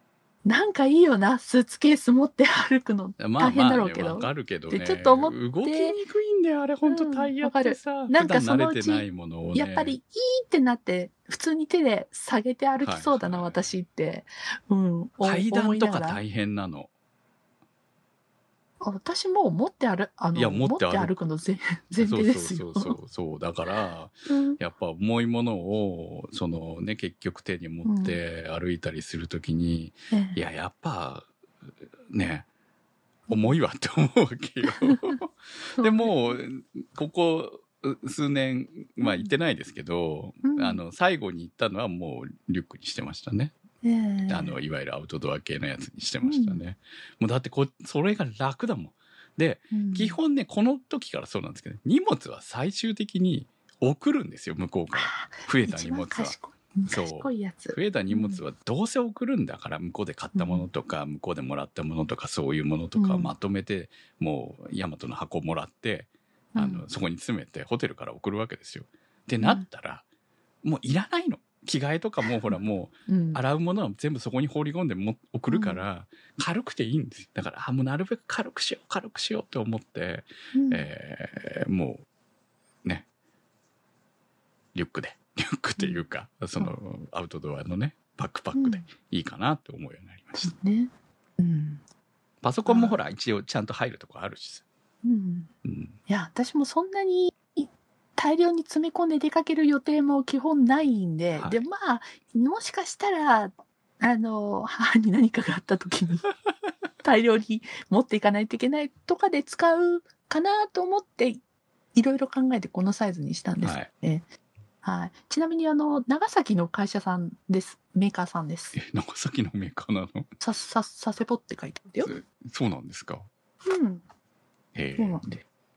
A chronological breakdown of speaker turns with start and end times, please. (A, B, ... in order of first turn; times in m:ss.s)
0:00.4-0:06.0 A
0:03.2-0:10.0 B
0:06.9-0:16.2 A
0:12.8-0:13.6 B
0:15.2-0:16.9 B
0:18.8-0:23.0 A
0:20.4-0:21.1 B
0:22.0-0:31.3 B
0:24.3-0:24.6 A
0:27.8-0:28.2 A
0:30.1-0:30.4 A
0:32.1-0:32.5 B
0:33.3-0:33.6 A
0:33.3-0:43.5 B
0:34.7-0:35.2 A
0:35.8-0:36.4 A
0:39.0-0:39.3 A
0:40.4-0:40.8 A
0:43.8-0:44.6 A
0:44.3-0:56.4 B
0:46.2-0:46.6 A
0:49.7-0:50.2 A
0:54.9-0:58.4 A
0:56.9-1:10.0 B
1:00.3-1:00.7 A
1:03.0-1:03.3 A
1:06.6-1:06.9 A
1:09.4-1:09.7 A
1:10.6-1:22.0 B
1:13.1-1:13.4 A
1:15.5-1:15.8 A
1:20.5-1:20.9 A
1:24.7-1:30.6 B
1:25.8-1:26.0 A
1:28.6-1:28.9 A
1:30.4-1:31.8 A
1:32.4-1:34.6 B
1:32.7-1:33.0 A
1:35.0-1:35.5 A
1:35.6-1:36.0 B
1:36.1-1:46.3 A
1:41.4-1:41.6 B
1:47.0-1:51.4 A
1:52.0-1:54.2 A
1:53.6-1:53.9 B
1:54.8-1:58.8 A
1:58.8-2:00.3 B
2:00.4-2:02.2 A
2:02.0-2:03.3 B
2:03.6-2:04.0 A
2:04.8-2:05.2 B
2:05.0-2:05.4 A